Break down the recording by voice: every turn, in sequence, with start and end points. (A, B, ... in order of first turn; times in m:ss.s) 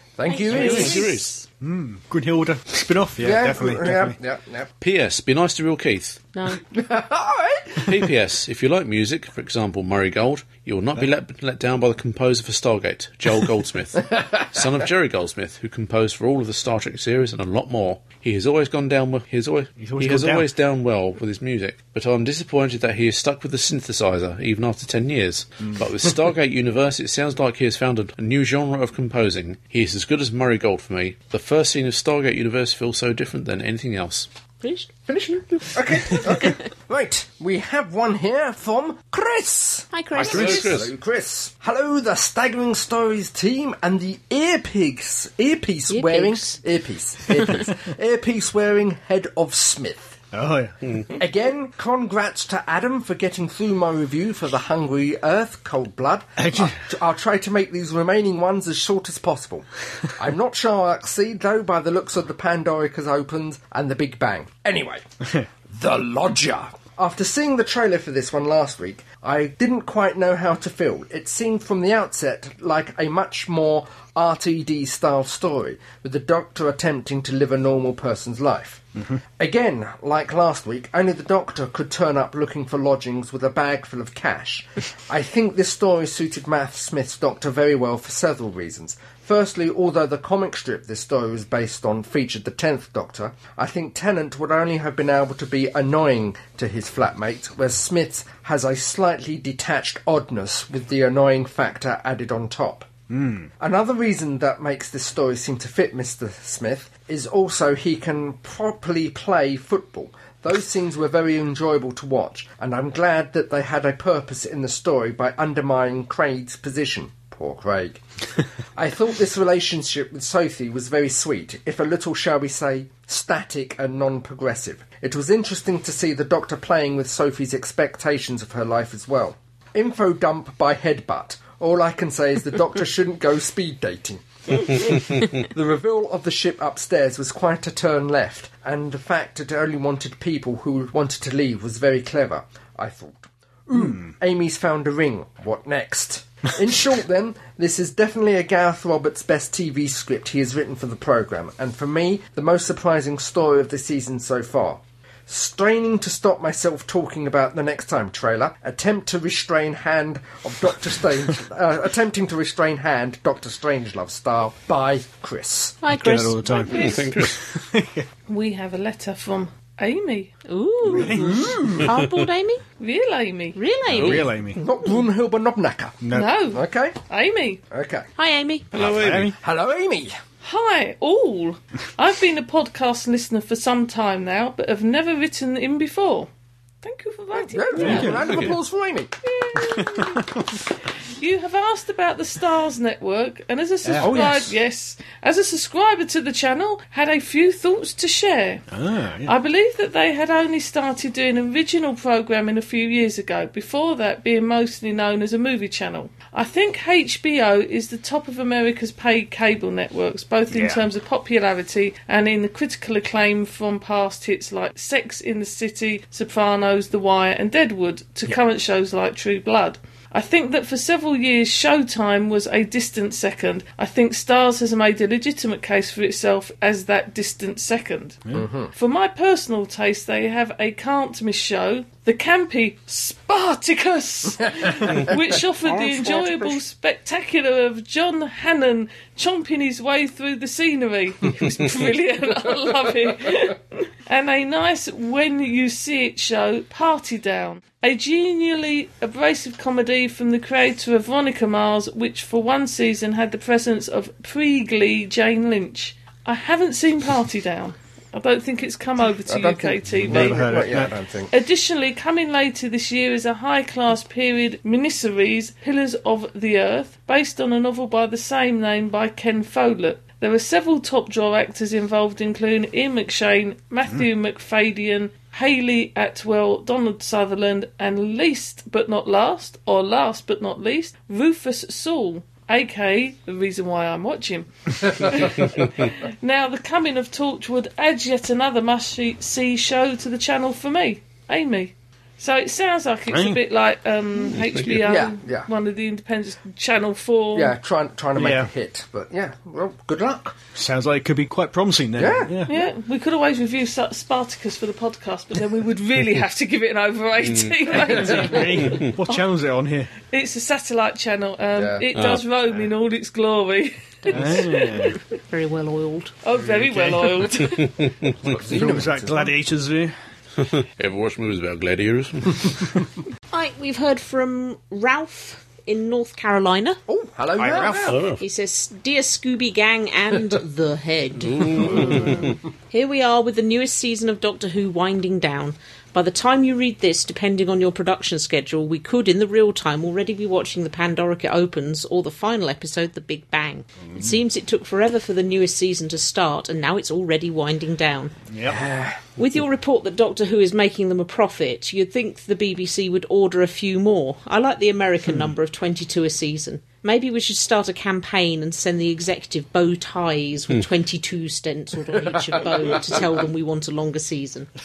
0:00.2-0:01.0 A
0:00.3-0:01.2 B
0:00.5-0:01.2 C
0:00.5-0:01.4 D
0:01.6-0:04.2 E
0:03.2-0:04.7 A
0:04.8-0:06.3 D
0:06.3-0:06.6 B
0:06.7-0:08.1 A
0:07.8-0:34.3 D
0:19.8-0:20.5 E
0:34.6-0:35.4 B
0:35.1-0:50.2 A
0:39.9-0:40.8 B
0:40.2-0:40.9 D
0:45.9-0:46.6 B
0:50.3-0:50.8 E
0:51.1-1:05.0 A
0:56.4-0:56.7 E
1:05.7-1:42.9 A
1:43.1-1:43.5 E
1:43.6-1:58.0 A
1:58.7-2:45.8 A
2:45.8-2:46.7 B
2:45.9-2:48.1 E
2:46.4-2:47.1 C
2:46.7-2:47.4 D
2:48.3-2:50.3 C
2:50.5-2:52.6 B
2:50.9-2:51.8 E
2:51.2-2:51.7 A
2:52.8-2:53.6 C
2:53.5-2:54.3 B
2:53.9-2:54.6 E
2:53.9-2:54.3 D
2:54.5-2:57.0 A
2:56.0-2:56.3 E
2:56.1-2:57.6 C
2:57.7-2:58.1 A
2:58.2-2:58.7 B
2:58.7-2:59.3 D
2:58.8-2:59.3 E
2:59.2-3:00.2 A
3:00.4-3:06.3 C
3:06.8-3:08.2 C
3:07.4-3:09.1 A
3:07.8-3:08.4 E
3:08.0-3:08.5 D
3:09.2-3:10.4 C
3:09.6-3:10.4 E
3:11.2-3:18.6 C
3:13.8-3:14.6 E
3:18.7-3:19.3 E
3:19.2-3:48.2 C
3:30.5-3:30.9 E
3:48.3-3:48.7 A
3:48.7-4:20.4 C
3:54.5-3:56.5 A
4:19.2-4:21.3 A
4:19.9-4:20.9 E
4:21.3-4:57.6 C
4:53.1-4:53.4 E
4:54.3-4:54.8 D
4:54.8-4:55.5 A
4:57.3-5:00.4 A
4:58.2-4:58.5 E
5:00.5-5:02.5 E
5:02.0-5:02.5 A
5:02.5-5:09.2 C
5:07.2-5:07.5 D
5:07.9-5:09.9 E
5:07.9-5:08.3 A
5:10.1-5:14.9 C
5:11.5-5:11.8 A
5:11.9-5:12.2 D
5:14.0-5:16.1 B
5:14.1-5:15.0 E
5:16.2-5:17.8 C
5:16.4-5:17.2 E
5:17.4-5:18.3 D
5:18.2-5:19.3 A
5:18.5-5:19.9 E
5:20.4-5:22.8 D
5:23.3-5:26.8 B
5:26.9-5:28.0 A
5:27.4-5:28.0 E
5:27.9-5:28.2 D
5:28.2-5:48.1 B
5:31.3-5:32.4 D
5:48.3-5:48.6 E
5:48.4-5:49.0 A
5:49.2-6:04.5 B